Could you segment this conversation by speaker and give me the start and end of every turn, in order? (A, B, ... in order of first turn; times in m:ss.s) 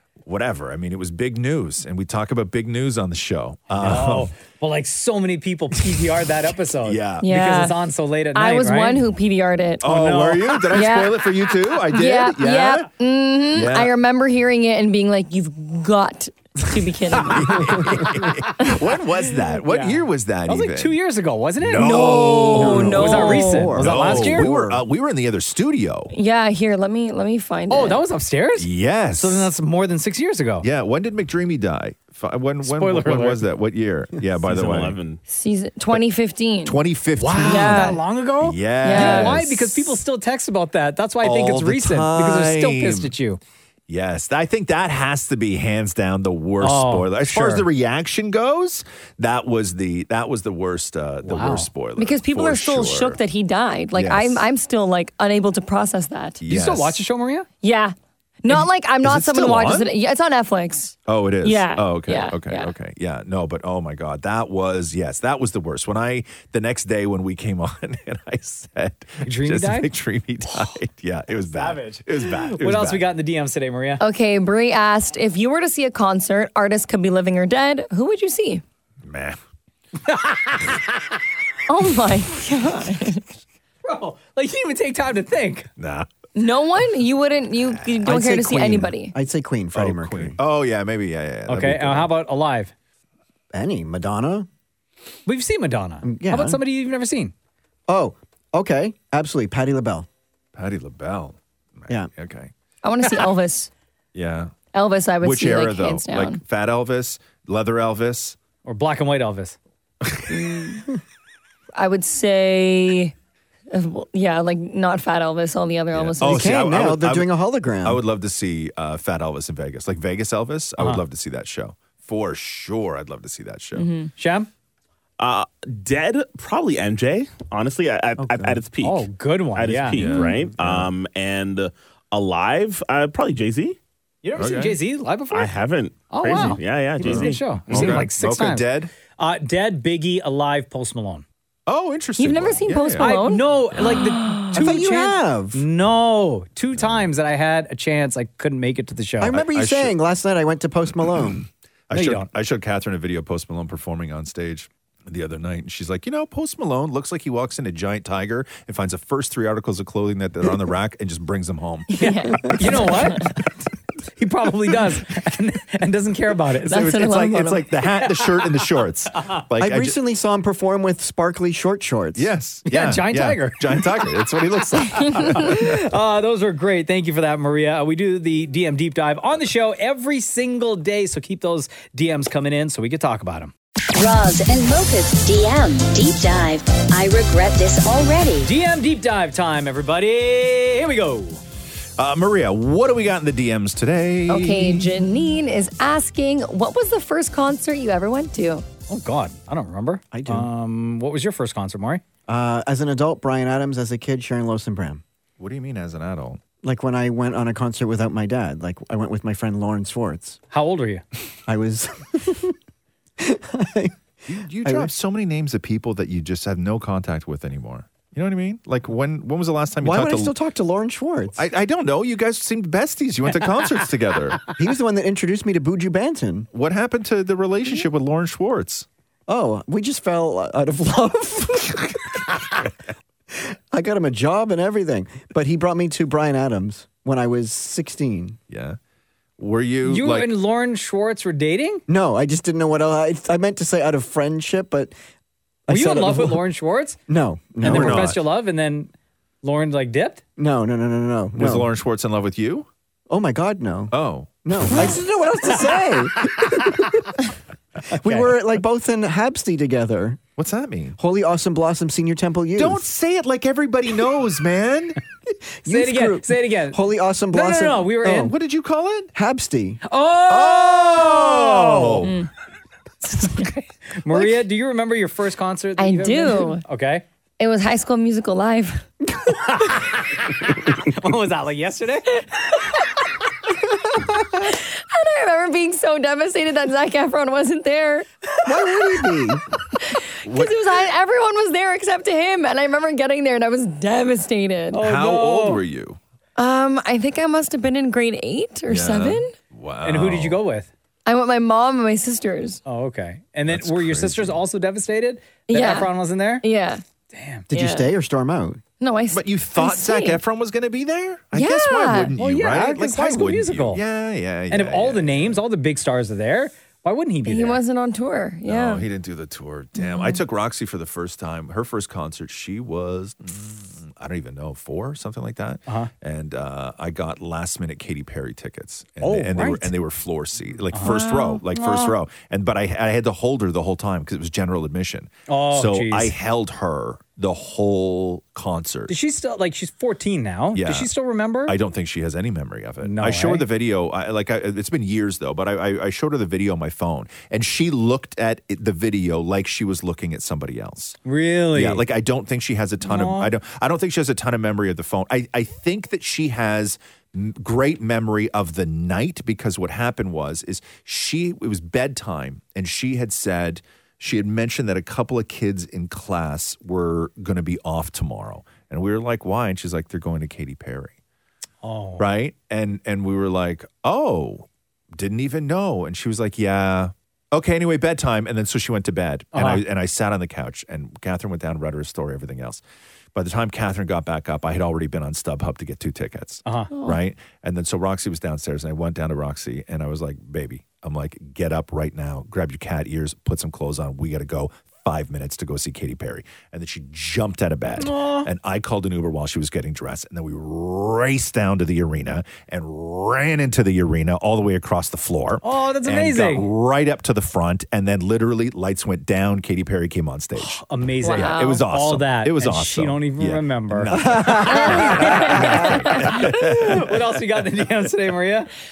0:00.2-0:04.3 A
0:03.8-0:09.0 B
0:06.8-0:07.3 A
0:07.2-0:07.8 C
0:08.4-0:09.8 C
0:09.8-0:12.9 A
0:09.8-0:10.6 B
0:10.7-0:11.3 C
0:11.9-0:18.0 C
0:13.5-0:13.9 A
0:17.1-0:21.0 A
0:19.7-0:22.0 B
0:21.6-0:26.1 A
0:21.8-0:23.7 C
0:22.4-0:24.8 D
0:22.5-0:24.5 B
0:26.1-0:28.0 C
0:27.7-0:30.7 B
0:28.6-0:29.5 A
0:30.6-0:35.0 A
0:32.6-0:33.4 B
0:34.4-0:35.2 E
0:35.3-0:36.8 C
0:36.6-0:40.0 A
0:37.2-0:43.4 B
0:37.4-0:38.0 C
0:38.8-0:39.4 C
0:41.2-0:43.1 A
0:43.9-0:53.2 A
0:46.6-0:47.7 B
0:51.2-0:51.7 B
0:52.0-0:56.4 C
0:53.9-0:54.4 A
0:56.4-0:57.0 A
0:56.5-0:57.5 B
0:57.6-1:02.7 C
0:58.5-0:59.9 A
1:01.1-1:13.1 A
1:09.2-1:09.9 B
1:11.6-1:14.0 B
1:14.0-1:18.6 C
1:19.0-1:19.4 A
1:20.1-1:20.8 B
1:21.7-1:23.2 C
1:23.8-1:25.7 B
1:25.8-1:26.1 A
1:26.4-1:29.1 C
1:27.6-1:28.2 A
1:28.0-1:30.4 D
1:29.8-1:32.1 A
1:31.5-1:32.7 B
1:33.5-1:34.5 D
1:35.3-1:37.3 B
1:36.0-1:36.6 D
1:37.9-1:40.1 D
1:40.6-1:42.5 A
1:42.8-1:43.7 C
1:44.1-1:44.5 A
1:44.7-1:46.4 C
1:45.2-1:48.4 A
1:48.6-1:49.6 B
1:50.0-1:50.6 A
1:50.3-1:50.9 C
1:51.8-1:53.1 C
1:53.7-1:56.6 C
1:55.9-1:57.3 A
1:56.2-1:58.0 D
1:57.8-2:03.9 A
2:03.8-2:04.1 C
2:04.2-2:04.5 B
2:05.2-2:13.8 E
2:08.2-2:08.6 D
2:08.8-2:10.1 B
2:10.0-2:10.9 A
2:14.2-2:15.5 B
2:14.4-2:14.8 A
2:15.3-2:18.1 E
2:16.1-2:21.2 B
2:17.0-2:18.9 A
2:21.7-2:23.2 A
2:22.2-2:24.5 C
2:23.0-2:29.4 B
2:24.5-2:25.6 D
2:26.8-2:27.1 A
2:29.2-2:31.4 D
2:29.4-2:29.9 A
2:31.9-2:41.9 A
2:31.9-2:32.3 B
2:41.9-2:43.4 C
2:42.0-2:43.4 B
2:44.2-2:47.1 B
2:46.7-2:47.7 C
2:46.7-2:50.0 A
2:48.0-2:48.6 B
2:49.6-2:52.3 D
2:52.2-2:55.8 A
2:52.7-2:54.0 B
2:55.2-3:03.5 B
3:03.9-3:08.5 F
3:08.4-3:11.4 B
3:12.0-3:14.9 A
3:14.3-3:18.6 C
3:18.9-3:22.0 B
3:20.1-3:20.5 D
3:22.3-3:25.0 D
3:25.4-3:26.4 A
3:26.6-3:30.4 D
3:30.5-3:31.0 B
3:31.5-3:32.6 D
3:33.2-3:34.0 D
3:34.3-3:40.3 A
3:34.6-3:34.9 D
3:39.8-3:41.4 D
3:41.4-3:44.4 A
3:44.6-3:46.5 D
3:46.5-3:48.9 A
3:49.3-3:52.3 D
3:53.3-3:58.4 D
3:58.5-3:58.8 A
3:59.4-4:00.3 A
3:59.8-4:01.8 B
4:01.9-4:04.9 D
4:05.7-4:06.4 D
4:05.7-4:07.0 B
4:07.1-4:08.2 D
4:07.6-4:10.2 B
4:07.6-4:08.2 A
4:10.4-4:11.7 D
4:11.4-4:12.7 A
4:13.1-4:17.2 D
4:13.9-4:15.0 A
4:17.9-4:18.4 B
4:18.0-4:20.2 D
4:20.4-4:21.0 A
4:21.0-4:22.8 D
4:22.6-4:25.0 A
4:25.6-4:28.4 D
4:25.7-4:26.8 B
4:27.3-4:28.3 B
4:28.1-4:29.1 A
4:29.2-4:29.8 D
4:29.8-4:32.1 B
4:30.3-4:32.2 A
4:33.2-4:33.6 C
4:33.9-4:37.0 B
4:35.8-4:36.6 C
4:37.4-4:38.9 C
4:39.4-4:42.2 B
4:44.4-4:48.1 C
4:48.4-4:49.4 D
4:49.8-4:54.8 C
4:50.2-4:50.6 A
4:54.7-4:55.6 B
4:54.8-4:56.0 A
4:56.4-4:59.3 C
4:58.7-5:00.4 A
4:59.8-5:00.7 B
5:01.1-5:02.6 C
5:02.6-5:06.4 B
5:03.5-5:04.4 A
5:05.5-5:06.8 C
5:07.1-5:07.5 B
5:07.5-5:08.6 D
5:07.5-5:07.9 C
5:08.8-5:10.2 C
5:09.1-5:15.4 A
5:11.3-5:12.1 C
5:12.2-5:13.8 B
5:14.5-5:17.6 B
5:17.2-5:18.8 C
5:18.4-5:38.9 A
5:19.8-5:20.2 C
5:29.0-5:29.7 B
5:30.7-5:31.0 B
5:30.8-5:31.3 C
5:31.5-5:32.0 B
5:35.3-5:36.1 B
5:38.9-5:41.6 B
5:40.6-5:40.9 A
5:41.5-5:51.0 A
5:42.8-5:43.4 B
5:51.1-5:51.8 B
5:51.5-6:10.9 A
5:52.8-5:53.3 B
6:11.6-6:12.0 B
6:12.0-6:22.6 A
6:19.3-6:19.6 B
6:23.2-6:50.6 A
6:26.4-6:26.7 B
6:37.8-6:38.3 B
6:45.4-6:46.5 B
6:50.4-6:58.5 B
6:51.0-6:51.6 C
6:51.1-6:56.9 A
6:53.9-6:54.8 D
6:54.5-6:56.2 C